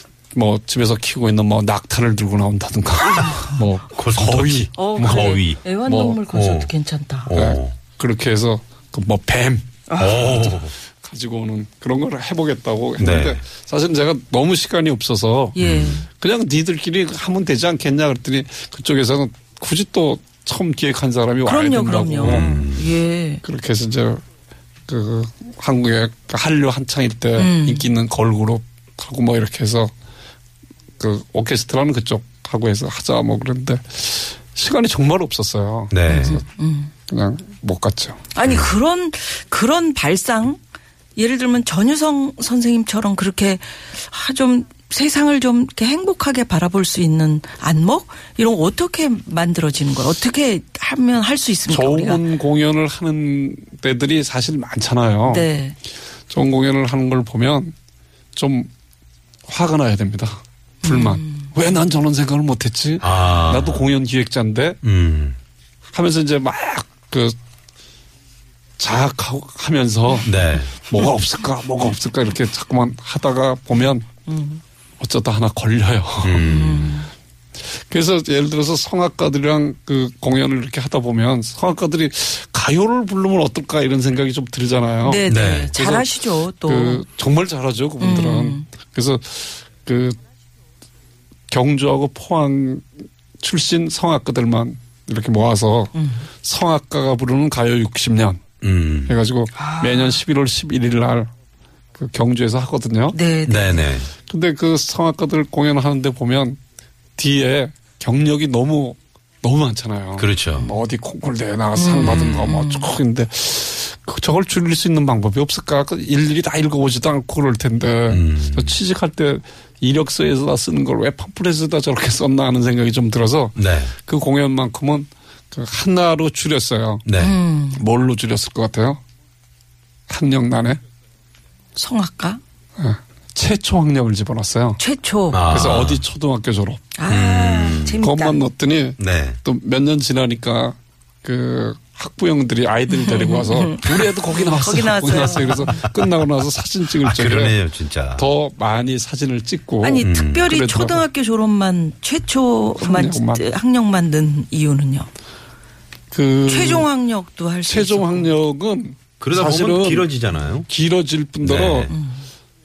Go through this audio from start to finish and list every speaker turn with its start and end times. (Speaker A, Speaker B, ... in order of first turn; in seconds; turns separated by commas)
Speaker A: 0.3-6.2, Speaker B: 3.9-5.6, Speaker C: 4.8-7.3, Speaker B: 6.3-6.7, Speaker B: 7.3-7.8, Speaker A: 7.3-22.6, Speaker C: 9.9-10.6, Speaker B: 10.0-10.8, Speaker B: 13.0-13.4, Speaker C: 15.6-16.1, Speaker B: 15.6-16.0, Speaker C: 21.4-23.4, Speaker B: 22.2-22.9, Speaker A: 23.4-24.2, Speaker A: 24.9-29.9, Speaker C: 27.4-27.9, Speaker A: 31.0-36.4, Speaker B: 35.9-36.4, Speaker C: 36.1-36.9, Speaker A: 37.1-38.3, Speaker C: 38.3-40.6, Speaker C: 41.2-52.2, Speaker A: 51.7-55.5, Speaker C: 55.3-55.8, Speaker A: 56.3-57.7, Speaker A: 58.4-58.7, Speaker A: 59.5-64.8, Speaker C: 60.8-61.5, Speaker B: 63.0-63.9, Speaker B: 64.8-65.4, Speaker A: 65.9-67.4, Speaker A: 68.8-74.1, Speaker B: 70.2-70.8, Speaker C: 74.3-74.6, Speaker A: 75.0-76.5, Speaker B: 76.2-77.0, Speaker C: 76.4-77.1, Speaker A: 77.7-90.2, Speaker C: 85.0-87.0, Speaker B: 85.3-85.7, Speaker C: 88.0-88.7, Speaker A: 91.5-98.4, Speaker C: 95.9-96.3, Speaker B: 98.6-99.2, Speaker A: 99.1-101.3, Speaker C: 99.6-100.2, Speaker A: 102.0-103.2, Speaker C: 103.1-103.9, Speaker B: 103.5-104.1, Speaker A: 104.3-106.6, Speaker A: 107.2-127.1, Speaker B: 110.2-110.7, Speaker C: 111.7-112.9, Speaker B: 118.1-118.8, Speaker B: 123.6-123.9, Speaker B: 127.1-127.4, Speaker C: 127.2-127.8, Speaker A: 127.7-129.0, Speaker A: 130.1-130.8, Speaker C: 131.8-132.4, Speaker A: 132.8-134.8, Speaker C: 134.8-135.7, Speaker B: 135.3-136.0, Speaker A: 135.5-136.9, Speaker C: 137.0-138.4, Speaker B: 137.1-138.0, Speaker A: 138.0-147.6, Speaker B: 139.0-139.4, Speaker C: 142.9-145.8, Speaker B: 147.0-148.3, Speaker A: 148.1-151.1, Speaker C: 149.8-155.1, Speaker B: 150.0-150.5, Speaker A: 152.8-153.4, Speaker A: 156.1-156.9, Speaker C: 156.5-158.3, Speaker A: 157.7-160.1, Speaker B: 159.2-160.7, Speaker A: 160.7-161.9, Speaker B: 161.4-161.9, Speaker C: 161.9-162.3